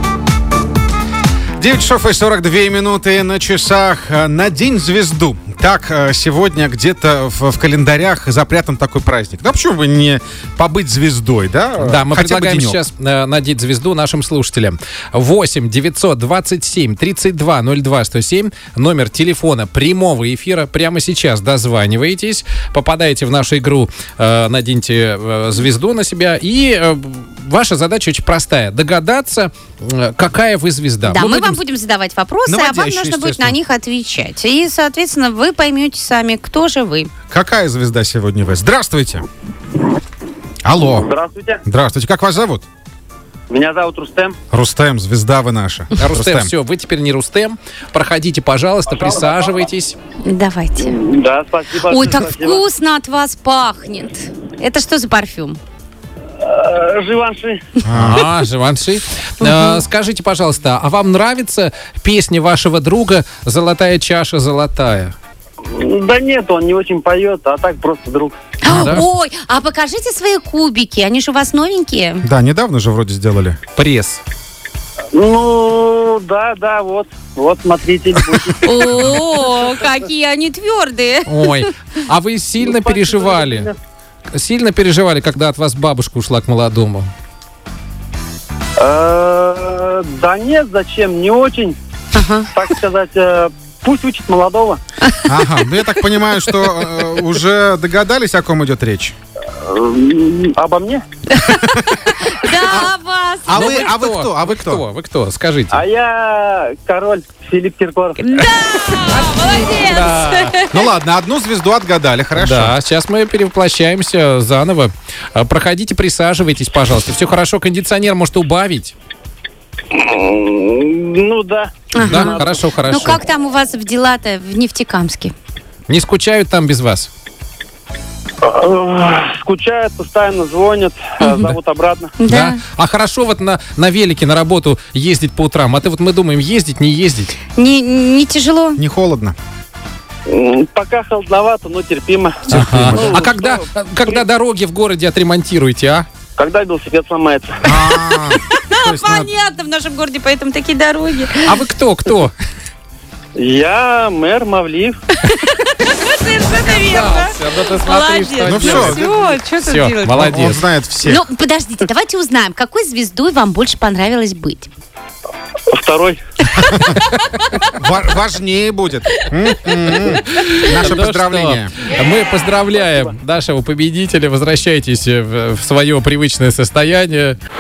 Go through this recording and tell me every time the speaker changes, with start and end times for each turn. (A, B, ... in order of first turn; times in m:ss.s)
0:01.6-0:12.8 A
0:11.8-0:31.6 B
0:31.0-0:37.1 C
0:32.4-0:33.6 A
0:37.3-0:39.2 A
0:40.6-0:41.1 A
0:41.0-0:41.6 D
0:41.7-0:42.6 A
0:43.5-0:44.4 D
0:44.5-0:46.5 A
0:46.0-0:50.0 B
0:48.9-0:49.4 D
0:50.2-0:51.0 C
0:50.9-0:52.6 D
0:51.8-0:55.6 C
0:56.4-0:57.6 D
0:57.8-0:58.2 A
0:57.9-1:05.2 B
0:59.4-0:59.8 C
1:05.7-1:08.4 D
1:08.6-1:12.2 C
1:08.6-1:09.1 B
1:12.2-1:13.6 A
1:13.8-1:14.2 B
1:15.1-1:19.1 D
1:18.6-1:21.7 C
1:18.8-1:19.3 B
1:21.3-1:23.7 B
1:22.6-1:23.8 D
1:24.3-1:27.1 B
1:28.8-1:31.8 D
1:32.1-1:32.5 C
1:32.5-1:34.8 D
1:35.2-1:39.2 A
1:39.6-1:41.0 D
1:41.3-1:43.8 C
1:41.5-1:41.9 A
1:42.6-1:42.9 A
1:43.4-1:44.8 A
1:43.5-1:45.8 B
1:45.7-1:48.2 D
1:48.2-1:50.8 C
1:49.0-1:50.6 B
1:50.7-1:52.7 A
1:52.4-1:58.9 B
1:59.9-2:02.6 D
2:01.9-2:05.3 C
2:02.0-2:03.2 B
2:05.9-2:07.1 B
2:08.4-2:12.2 D
2:11.2-2:11.5 C
2:12.2-2:12.6 C
2:12.2-2:17.4 B
2:17.5-2:18.8 C
2:18.8-2:19.4 A
2:20.3-2:24.2 D
2:22.5-2:23.1 A
2:22.5-2:26.1 B
2:26.4-2:27.7 D
2:27.6-2:29.3 A
2:28.6-2:31.6 C
2:31.4-2:32.3 B
2:33.4-2:35.0 D
2:35.2-2:40.3 C
2:36.6-2:40.6 B
2:38.4-2:39.1 A
2:40.2-2:41.2 A
2:41.0-2:44.7 C
2:45.7-2:46.2 D
2:46.6-2:47.0 A
2:47.7-2:51.7 A
2:50.0-2:57.4 B